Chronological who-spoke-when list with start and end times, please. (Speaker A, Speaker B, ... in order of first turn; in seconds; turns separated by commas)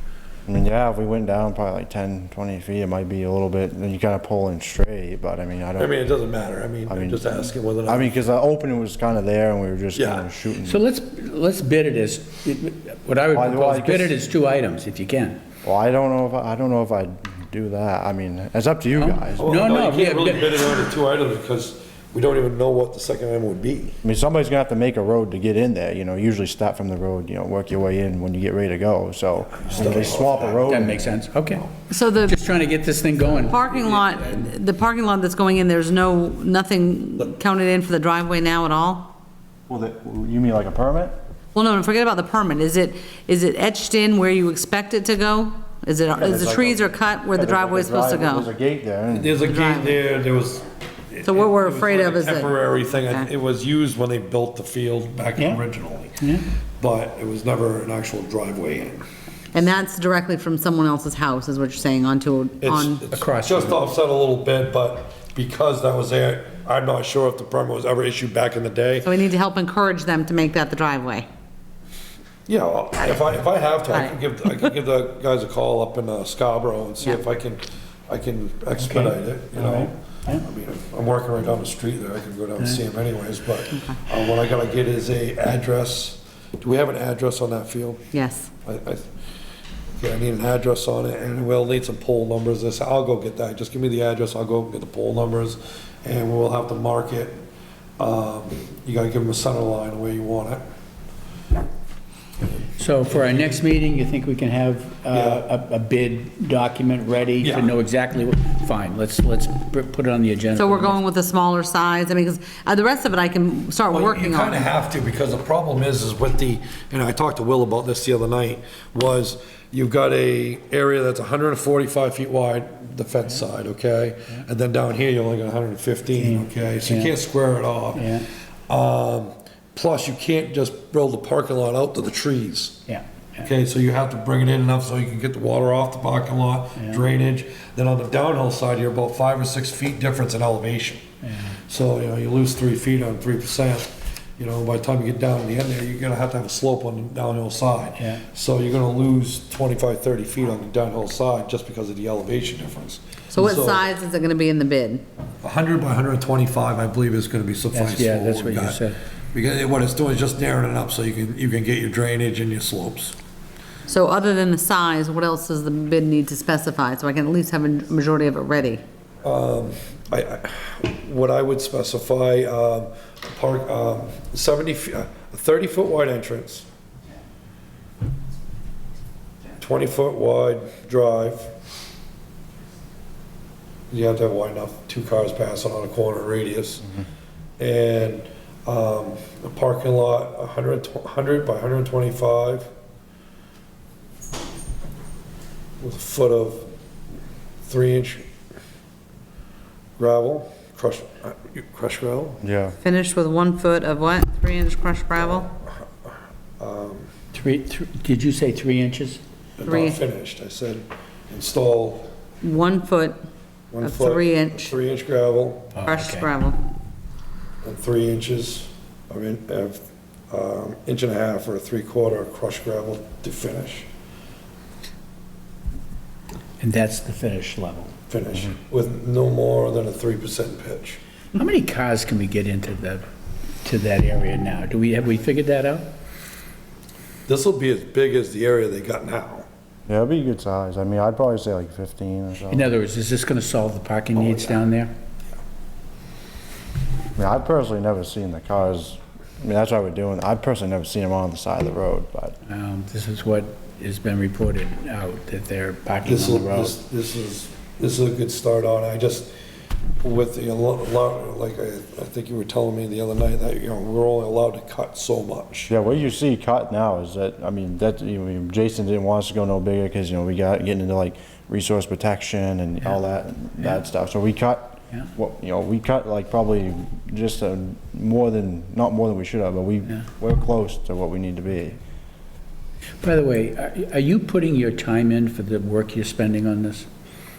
Speaker A: 0.5-6.0, Speaker B: 5.8-8.1, Speaker A: 6.9-10.8, Speaker B: 9.9-10.2, Speaker C: 10.6-15.4, Speaker A: 13.3-14.1, Speaker A: 15.6-19.6, Speaker C: 19.0-20.8, Speaker B: 19.4-24.0, Speaker A: 24.0-31.1, Speaker B: 29.5-30.8, Speaker C: 30.6-31.6, Speaker D: 31.9-32.4, Speaker C: 32.2-33.6, Speaker D: 33.4-39.1, Speaker A: 39.7-41.1, Speaker D: 41.5-48.5, Speaker A: 46.1-49.3, Speaker B: 49.1-56.2, Speaker D: 49.4-50.0, Speaker D: 51.2-53.3, Speaker C: 55.4-55.6, Speaker C: 56.2-56.4, Speaker B: 56.8-59.0, Speaker D: 59.5-63.0, Speaker B: 62.6-69.1, Speaker C: 63.1-63.8, Speaker D: 69.0-71.2, Speaker B: 72.5-88.0, Speaker D: 73.9-74.7, Speaker C: 78.8-80.4, Speaker D: 83.7-84.0, Speaker D: 88.1-88.5, Speaker B: 88.6-89.1, Speaker B: 90.0-97.4, Speaker B: 98.0-100.6, Speaker C: 102.8-111.0, Speaker B: 103.1-103.6, Speaker B: 105.1-105.5, Speaker B: 107.4-107.7, Speaker D: 110.5-114.7, Speaker B: 113.9-132.8, Speaker C: 126.2-127.1, Speaker C: 127.9-128.3, Speaker C: 132.9-133.5, Speaker B: 133.4-141.0, Speaker C: 136.8-137.0, Speaker C: 141.2-141.6, Speaker B: 141.7-153.8, Speaker C: 148.0-148.2, Speaker D: 153.3-155.0, Speaker B: 155.4-158.8, Speaker C: 157.7-159.0, Speaker B: 159.3-163.1, Speaker D: 163.9-168.8, Speaker B: 169.2-176.7, Speaker B: 179.6-181.5, Speaker B: 183.9-186.9, Speaker B: 187.6-192.7, Speaker B: 195.8-196.7, Speaker B: 197.7-198.2, Speaker B: 200.0-202.4, Speaker A: 202.4-202.8, Speaker D: 202.8-205.5, Speaker B: 206.6-207.1, Speaker C: 207.3-209.2, Speaker B: 209.6-212.1, Speaker D: 209.7-210.0, Speaker D: 212.4-213.2, Speaker B: 213.7-215.7, Speaker D: 213.8-214.7, Speaker C: 215.7-216.3, Speaker D: 215.8-216.6, Speaker B: 217.6-223.9, Speaker C: 226.6-227.9, Speaker B: 228.1-231.0, Speaker C: 231.3-233.0, Speaker C: 233.6-235.9, Speaker B: 237.3-239.4, Speaker A: 239.9-242.7, Speaker C: 242.5-244.9, Speaker B: 244.1-244.6, Speaker A: 247.2-252.3, Speaker C: 252.4-256.7, Speaker B: 256.0-259.3, Speaker B: 260.0-265.7, Speaker A: 265.7-281.8, Speaker C: 283.0-286.9